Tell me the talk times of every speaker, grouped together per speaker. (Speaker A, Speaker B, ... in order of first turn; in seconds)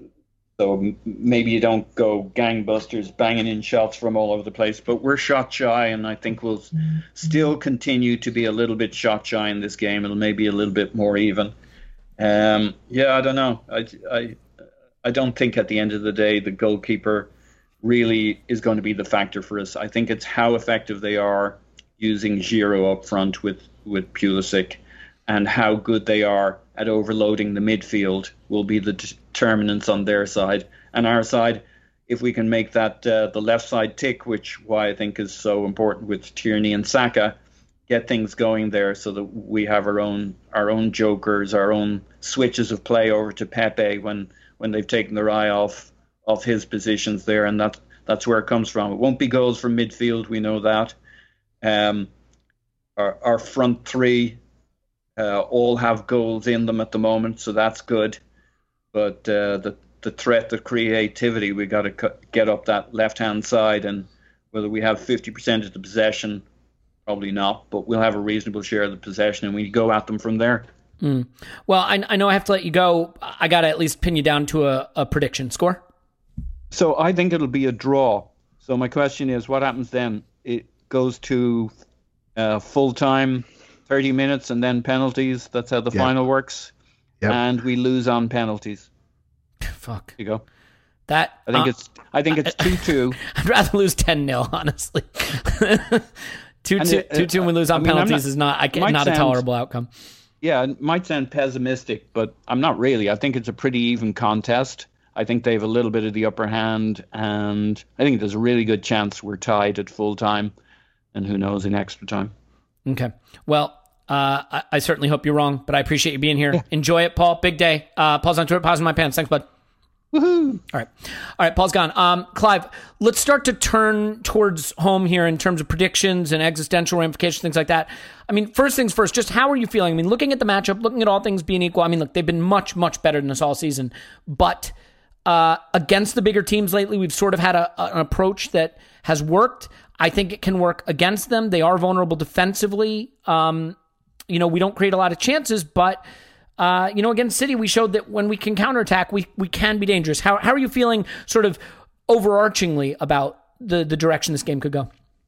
Speaker A: 0.6-11.5, 12.2-14.4, 15.0-17.3, 17.8-37.4, 37.9-51.0, 51.6-52.1, 53.0-54.4, 55.2-58.2, 58.9-66.4, 67.1-70.7, 76.7-81.7, 82.4-86.7, 87.3-88.9, 90.2-90.4, 91.5-93.2, 96.8-99.4, 100.4-110.5, 111.1-112.3, 120.1-120.6
Speaker B: 71.0-75.8, 89.7-90.2, 91.1-91.7, 92.5-96.1, 96.6-99.9, 112.9-119.5, 120.7-134.7, 135.3-143.8, 144.3-146.0, 146.6-154.9